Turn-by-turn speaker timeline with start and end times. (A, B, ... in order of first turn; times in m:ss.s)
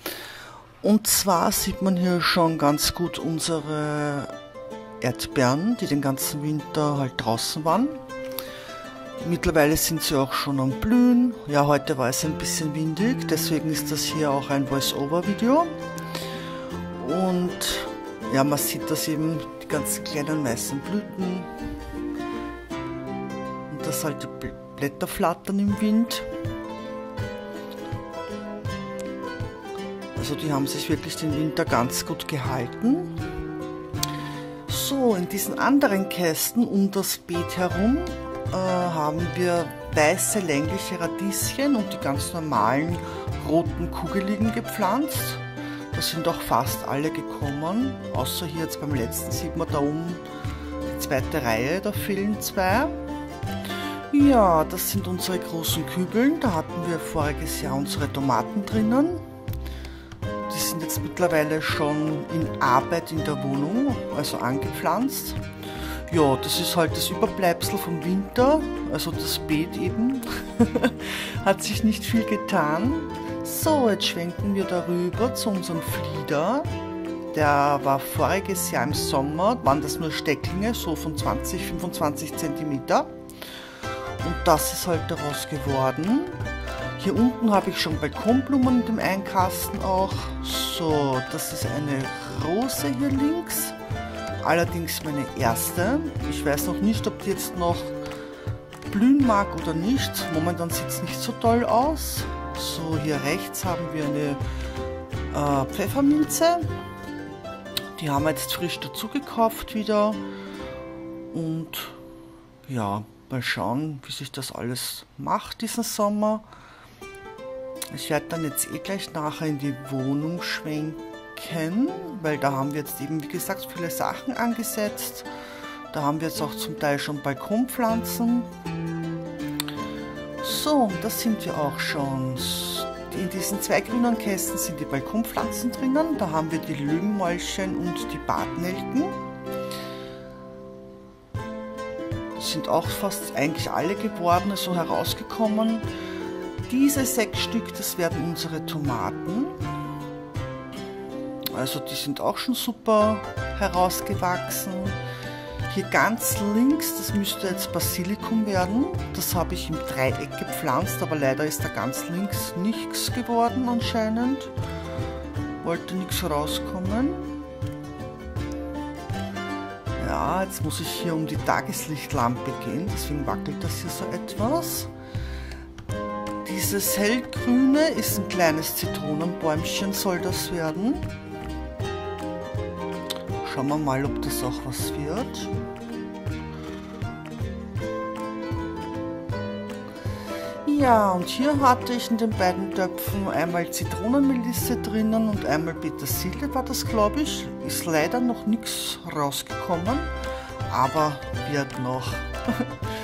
0:00.8-0:04.3 A
0:05.0-0:08.0 A
0:09.2-0:15.7 A
0:16.9-0:21.5 A
0:23.7-0:26.3 A
0:30.1-0:33.1 A
0:34.6-0:50.2 A
0:50.8-0:53.0 A
0:54.1-0:59.2 A
1:00.5-1:05.4 A
1:06.1-1:16.7 A
1:17.3-1:23.2 A
1:24.2-1:26.4 A
1:27.0-1:33.8 A
1:34.4-1:37.9 A
1:38.9-1:44.4 A
1:45.3-1:46.7 A
1:48.0-1:50.2 A
1:51.3-1:52.0 A
1:52.6-1:56.4 A
1:57.9-2:05.3 A
2:05.9-2:08.5 A
2:10.4-2:19.2 A
2:22.4-2:25.8 A
2:26.7-2:29.6 A
2:31.5-2:35.0 A
2:35.7-2:44.5 A
2:45.6-2:47.3 A
2:50.0-2:54.9 A
2:56.4-3:01.1 A
3:03.4-3:05.5 A
3:10.6-3:20.1 A
3:20.7-3:22.8 A